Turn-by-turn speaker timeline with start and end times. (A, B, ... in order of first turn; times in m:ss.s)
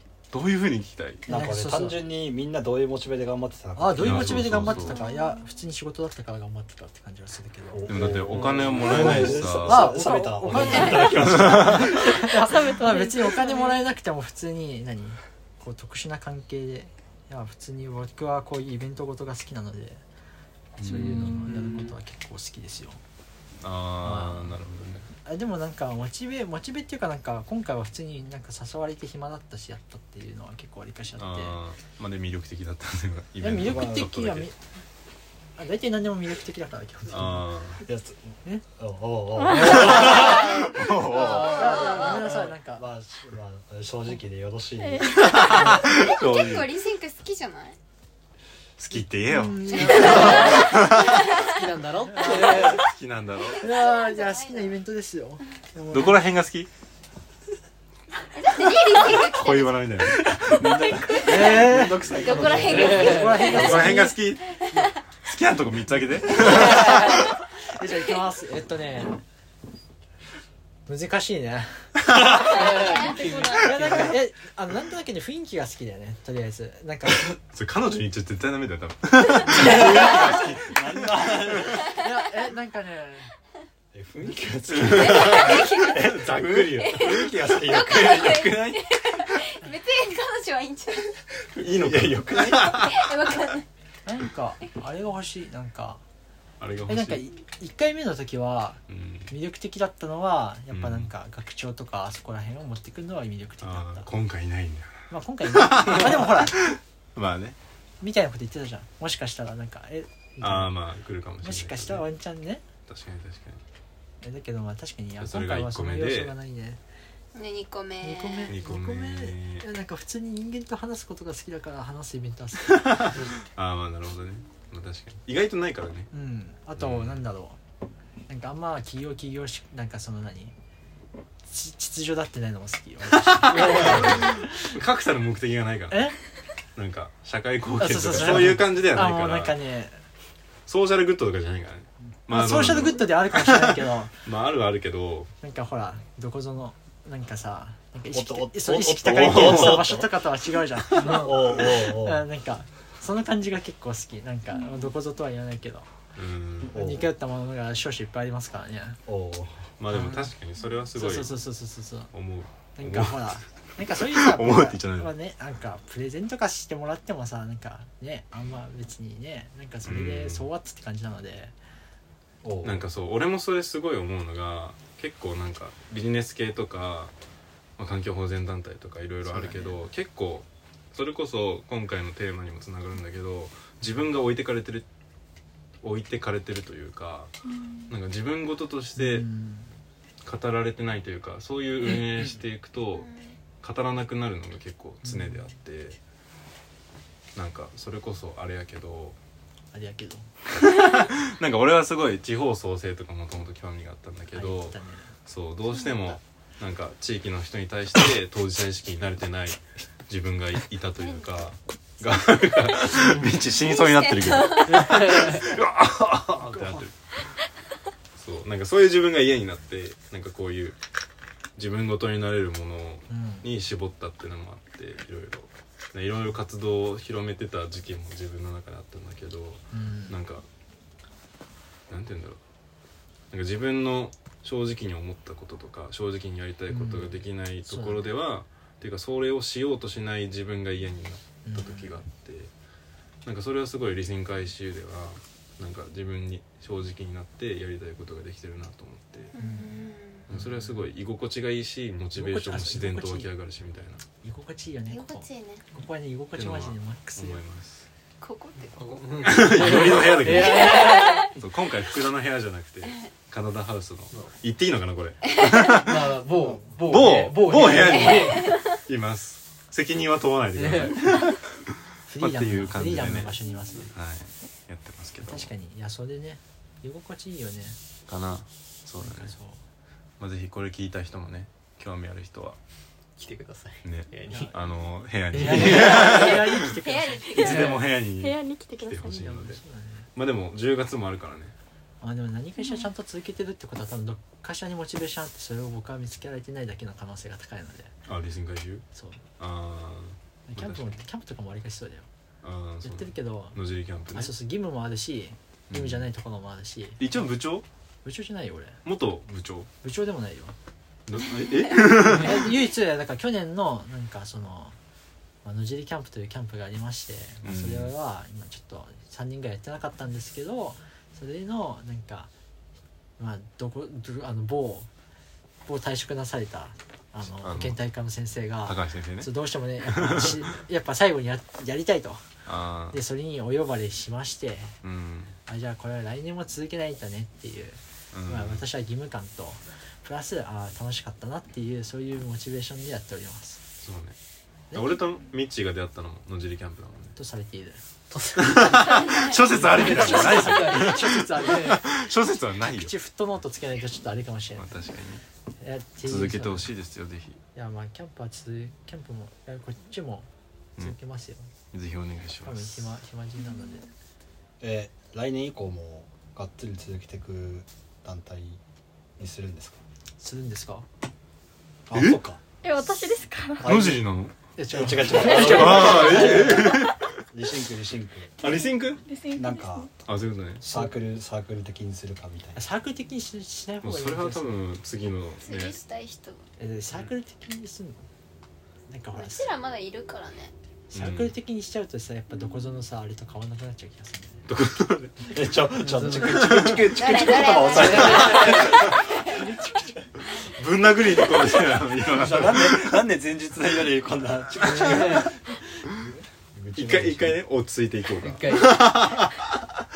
0:00.3-0:01.3 A
0:01.3-0:04.8 B
0:01.3-0:02.0 C
0:03.8-0:07.9 C
0:04.0-0:05.0 A
0:04.8-0:05.4 D
0:07.7-0:11.8 B
0:07.9-0:12.2 A
0:08.3-0:09.4 E
0:09.0-0:20.0 C
0:11.9-0:13.9 D
0:20.8-0:21.4 A
0:20.8-0:21.7 D
0:20.8-0:23.0 C
0:21.5-0:21.9 E
0:23.6-0:25.1 A
0:24.0-0:24.6 C
0:25.2-0:31.6 C
0:31.2-0:34.5 A
0:33.4-0:34.6 C
0:33.6-0:34.1 B
0:35.6-0:37.5 C
0:37.1-0:37.8 A
0:37.8-0:40.7 B
0:39.4-0:39.8 D
0:39.6-0:40.2 C
0:39.6-0:41.7 A
0:39.8-0:42.2 F
0:41.1-0:42.9 C
0:41.6-0:42.5 E
0:42.8-0:45.8 B
0:44.8-0:45.3 D
0:45.1-0:46.7 A
0:45.6-0:45.8 C
0:45.6-0:47.8 F
0:48.8-0:51.2 A
0:49.3-0:50.7 C
0:49.7-0:51.7 F
0:50.0-0:52.9 E
0:52.1-0:52.8 C
0:52.5-0:53.6 A
0:53.4-0:54.8 F
0:53.6-0:56.3 C
0:55.9-0:56.7 A
0:58.3-1:00.1 F
0:58.9-1:02.0 A
1:00.5-1:02.9 B
1:00.7-1:04.9 F
1:01.2-1:04.2 C
1:02.7-1:03.5 E
1:03.4-1:04.5 A
1:05.2-1:07.3 A
1:06.3-1:09.2 C
1:10.9-1:11.9 C
1:12.2-1:12.5 A
1:12.4-1:14.2 E
1:12.7-1:13.3 F
1:13.1-1:13.6 D
1:13.5-1:17.3 C
1:17.1-1:21.8 A
1:19.5-1:20.1 C
1:19.5-1:21.8 B
1:22.0-1:23.3 C
1:23.9-1:28.5 B
1:24.7-1:29.4 A
1:24.8-1:31.2 F
1:31.4-1:33.3 A
1:31.8-1:32.6 B
1:32.4-1:33.7 F
1:34.1-1:36.0 C
1:36.6-1:37.3 A
1:36.9-1:44.1 C
1:38.9-1:39.3 A
1:40.7-1:41.1 A
1:43.6-1:47.6 A
1:45.1-1:46.7 C
1:48.0-1:50.8 C
1:50.4-1:52.1 A
1:51.4-1:52.6 C
1:52.9-1:53.6 A
1:54.2-1:56.8 C
1:55.2-1:56.3 A
1:57.4-1:58.6 F
1:58.0-2:03.0 C
1:58.5-1:59.7 A
2:02.7-2:06.1 A
2:06.1-2:07.6 C
2:06.8-2:07.2 A
2:08.3-2:10.5 C
2:11.5-2:14.7 C
2:13.1-2:16.1 A
2:13.5-2:14.0 E
2:15.9-2:16.2 C
2:16.8-2:19.6 A
2:17.8-2:20.0 C
2:20.7-2:25.3 A
2:22.3-2:24.2 C
2:25.4-2:35.9 C
2:28.1-2:30.2 B
2:29.3-2:29.8 A
2:31.0-2:32.3 B
2:34.6-2:34.9 D
2:36.2-2:36.8 A
2:36.7-2:37.1 B
2:36.7-2:39.0 C
2:39.1-2:39.7 B
2:39.8-2:41.4 A
2:39.9-2:40.3 C
2:41.0-2:42.1 C
2:42.1-2:43.4 A
2:42.8-2:51.5 C
2:44.0-2:45.1 A
2:49.8-2:50.5 A
2:52.4-2:52.9 B
2:52.6-2:57.1 A
2:57.8-3:04.8 A
2:59.3-2:59.8 C
3:05.8-3:07.3 A
3:07.5-3:07.9 D
3:07.9-3:09.2 A
3:09.0-3:09.7 C
3:10.2-3:13.1 A
3:13.0-3:13.4 F
3:13.6-3:16.0 A
3:15.0-3:15.5 C
3:17.4-3:19.2 A
3:19.7-3:20.3 C
3:20.7-3:37.0 A
3:24.3-3:25.1 C
3:31.0-3:31.3 F
3:33.0-3:33.4 C
3:33.6-3:35.6 F
3:34.8-3:35.4 E
3:36.4-3:36.8 C
3:38.2-3:40.8 A
3:41.6-3:50.4 A
3:43.1-3:43.5 C
3:49.7-3:50.2 C
3:51.9-3:52.4 A
3:53.3-4:02.5 A
3:56.7-3:58.1 C
4:01.4-4:02.0 C
4:03.2-4:09.3 A
4:09.4-4:10.3 F
4:09.4-4:09.7 C
4:10.3-4:14.0 A
4:10.3-4:10.8 C
4:12.2-4:13.3 C
4:14.2-4:17.4 C
4:14.9-4:15.6 F
4:16.4-4:17.9 A
4:18.2-4:19.0 F
4:18.8-4:21.3 E
4:19.2-4:26.0 A
4:20.4-4:21.3 F
4:25.8-4:28.6 E
4:26.9-4:31.4 A
4:27.9-4:28.6 F
4:30.6-4:31.1 E
4:32.1-4:33.9 C
4:32.2-4:33.4 A
4:33.9-4:35.5 A
4:35.2-4:37.8 C
4:38.1-4:39.3 A
4:39.0-4:39.6 C
4:40.2-4:42.6 A
4:43.2-4:44.5 E
4:43.8-4:46.7 A
4:44.3-4:44.6 C
4:45.3-4:46.4 E
4:45.4-4:47.8 C
4:45.9-4:47.8 F
4:47.4-4:49.6 A
4:47.4-4:49.1 D
4:49.0-4:50.1 C
4:50.2-4:51.5 A
4:52.0-4:57.9 C
4:52.6-4:52.9 D
4:58.1-4:58.9 A
4:59.0-4:59.2 C
4:59.4-5:01.0 A
5:00.5-5:02.1 C
5:02.4-5:04.3 A
5:02.8-5:03.6 C
5:04.1-5:07.3 C
5:05.7-5:06.1 A
5:07.0-5:07.6 A
5:08.0-5:08.8 C
5:08.8-5:09.7 A
5:09.8-5:10.6 C
5:11.1-5:12.5 A
5:12.0-5:14.8 C
5:15.4-5:22.3 C
5:17.4-5:17.9 A
5:23.2-5:24.9 C
5:25.7-5:32.3 C
5:27.4-5:27.8 A
5:28.6-5:29.3 A
5:29.8-5:30.4 A
5:32.5-5:33.0 A
5:32.9-5:34.8 C
5:34.8-5:35.4 A
5:35.5-5:43.6 C
5:38.1-5:38.6 A
5:43.8-5:44.2 A
5:44.7-5:45.0 C
5:44.7-5:47.2 A
5:47.2-5:47.8 C
5:48.1-5:51.7 E
5:48.4-5:52.9 A
5:49.0-5:49.4 F
5:49.5-5:51.9 C
5:52.7-5:54.8 C
5:54.6-5:55.2 A
5:55.6-5:56.7 C
5:56.0-5:57.4 A
5:57.6-6:01.5 C
6:01.7-6:03.0 A
6:02.4-6:03.9 C
6:04.6-6:08.6 B
6:09.2-6:09.8 B
6:10.2-6:10.9 C
6:11.9-6:12.4 B
6:11.9-6:12.2 A
6:12.6-6:13.7 D
6:13.6-6:14.0 B
6:13.6-6:14.4 A
6:14.6-6:16.7 C
6:14.7-6:18.3 B
6:15.3-6:17.0 A
6:18.4-6:19.0 A
6:18.4-6:19.9 D
6:19.4-6:19.9 B
6:20.0-6:20.6 A
6:20.6-6:21.0 C
6:20.6-6:22.6 B
6:22.6-6:24.6 C
6:23.8-6:25.8 A
6:25.4-6:26.4 F
6:26.6-6:28.1 C
6:28.9-6:29.5 C
6:29.1-6:30.5 F
6:30.9-6:31.3 A
6:30.9-6:34.4 C
6:34.5-6:35.4 A
6:35.3-6:39.8 B
6:35.8-6:36.6 C
6:36.1-6:39.0 A
6:36.9-6:39.4 F
6:38.0-6:38.5 E
6:39.3-6:39.9 C
6:40.3-6:43.1 A
6:42.0-6:45.4 B
6:44.7-6:45.3 C
6:44.7-6:45.3 A
6:44.8-6:45.3 E
6:45.9-6:47.4 B
6:46.8-6:49.6 A
6:48.2-6:48.9 E